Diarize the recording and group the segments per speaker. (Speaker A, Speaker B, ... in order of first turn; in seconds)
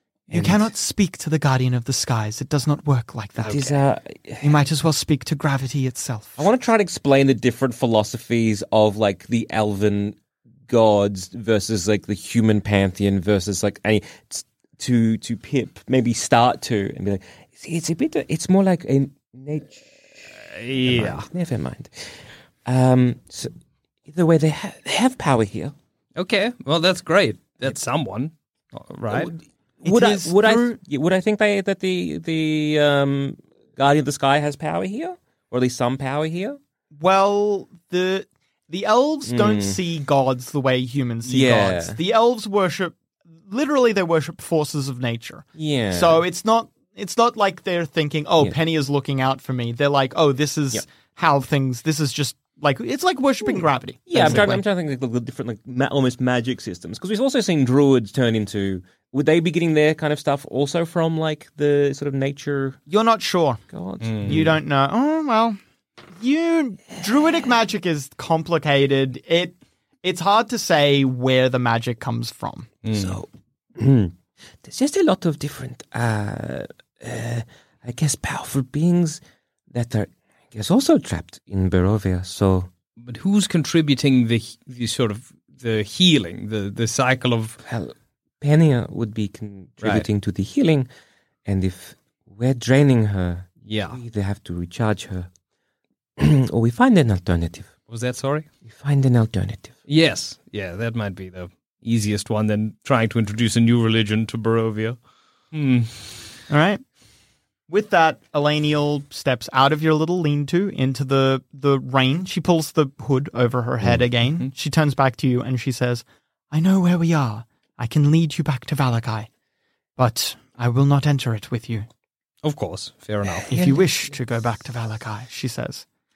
Speaker A: 0.3-0.7, 3.5-4.6, 6.4-23.5, 24.1-25.7, 29.1-36.6, 39.2-39.8, 41.2-42.0, 45.5-46.2, 53.4-62.8, 63.7-64.6, 72.9-82.7, 87.6-90.9, 91.5-95.3, 96.2-97.7, 98.6-99.8
Speaker B: 0.3-3.8, 4.4-6.4, 29.8-30.8, 36.9-54.6, 62.9-63.6, 64.2-65.6, 66.2-72.7, 106.5-106.8, 107.7-119.3, 120.0-121.9, 123.5-125.8
Speaker C: 20.5-21.2, 26.2-29.3, 54.2-54.5, 64.0-64.5, 72.8-73.2, 83.0-87.6, 89.8-90.1, 93.7-94.0, 97.9-98.5, 99.9-105.0, 105.5-106.3, 122.4-123.7